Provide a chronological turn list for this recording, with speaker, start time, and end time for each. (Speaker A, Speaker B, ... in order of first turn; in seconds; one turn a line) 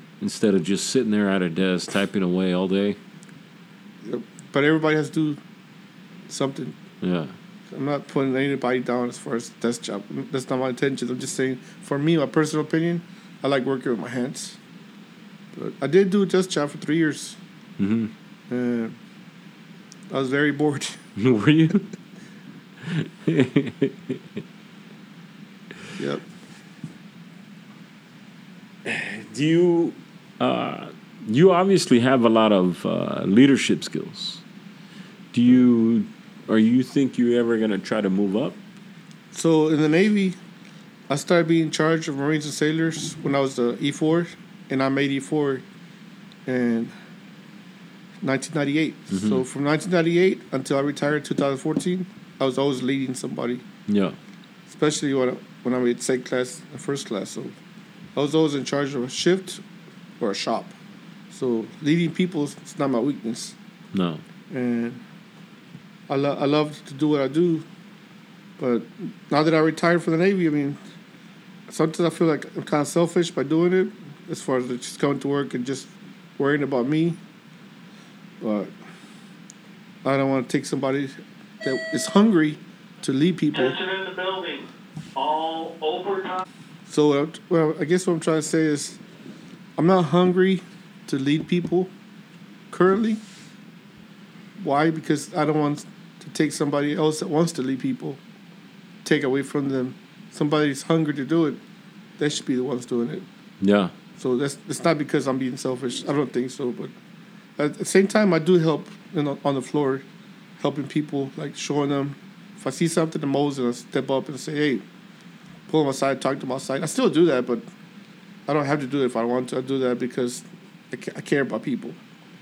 Speaker A: 0.2-3.0
Speaker B: 4.0-5.4
Speaker B: 6.3-6.8
Speaker A: 7.0-7.3
Speaker B: 7.7-14.6
Speaker B: 15.5-17.4
Speaker A: 17.8-18.1
Speaker B: 18.5-18.9
Speaker B: 20.1-21.0
Speaker A: 21.2-21.9
Speaker A: 22.8-24.2
Speaker B: 26.0-26.2
Speaker A: 28.8-34.4
Speaker A: 35.3-38.6
Speaker B: 39.3-40.4
Speaker B: 41.1-45.6
Speaker B: 46.5-46.9
Speaker B: 48.2-53.6
Speaker A: 49.1-49.4
Speaker A: 53.9-54.2
Speaker B: 54.7-57.5
Speaker B: 58.1-59.6
Speaker B: 60.2-60.7
Speaker B: 61.3-63.5
Speaker A: 63.9-64.2
Speaker B: 64.5-65.0
Speaker B: 66.1-67.6
Speaker B: 68.6-70.8
Speaker B: 71.7-77.2
Speaker B: 78.4-78.7
Speaker B: 80.0-83.8
Speaker C: 83.5-86.4
Speaker B: 86.9-89.0
Speaker B: 89.8-91.9
Speaker B: 92.7-93.2
Speaker B: 94.6-98.2
Speaker B: 99.0-101.6
Speaker B: 102.2-103.2
Speaker A: 103.6-103.9
Speaker B: 104.2-106.9
Speaker B: 107.6-110.0
Speaker B: 110.6-114.8
Speaker B: 115.7-117.6
Speaker B: 118.5-122.0